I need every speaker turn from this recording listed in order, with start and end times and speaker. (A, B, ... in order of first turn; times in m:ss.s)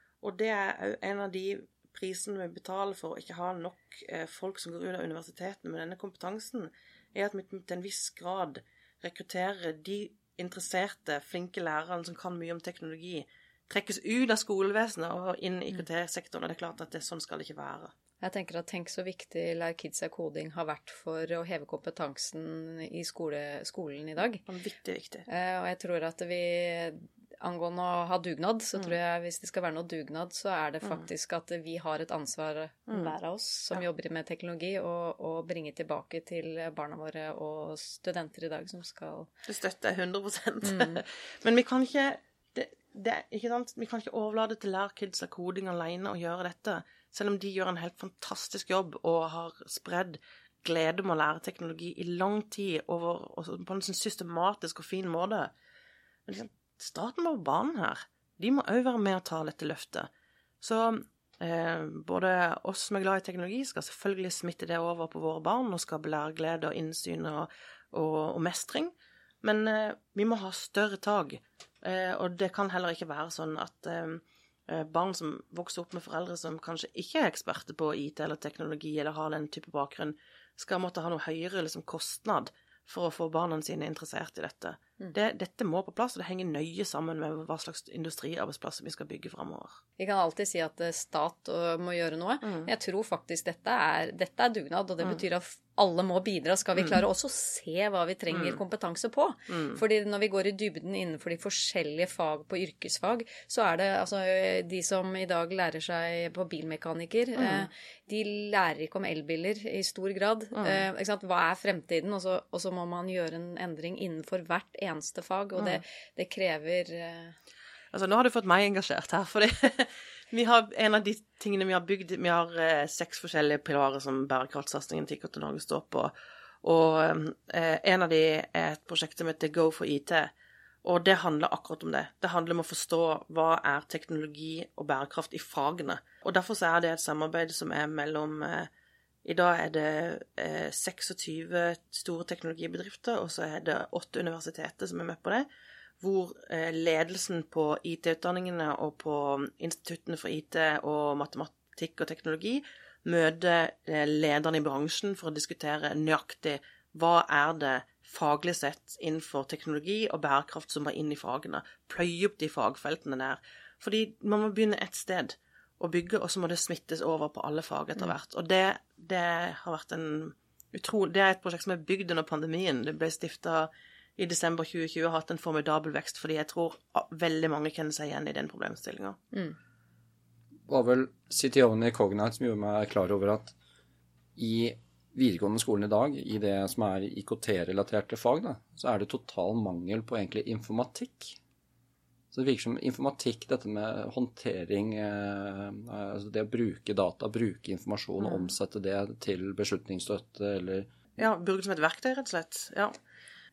0:00.2-0:17.9 A
0:18.2-0:24.4 B
0:24.5-0:25.2 A
0:25.3-0:39.3 B
0:32.9-0:33.1 A
0:39.5-0:55.5 A
0:40.6-0:41.0 B
0:56.3-1:00.1 A
1:00.6-1:29.8 A
1:30.0-1:57.3 B
1:32.4-1:32.7 A
1:38.3-1:38.6 A
1:39.5-1:39.8 A
1:47.4-1:47.7 A
1:50.5-1:50.8 A
1:57.9-2:06.1 A
2:06.6-2:10.3 A
2:10.8-2:18.7 A
2:19.2-2:25.4 A
2:26.0-2:59.2 A
3:00.7-3:03.5 C
3:04.4-3:11.4 C
3:12.3-3:20.9 C
3:21.2-3:22.9 A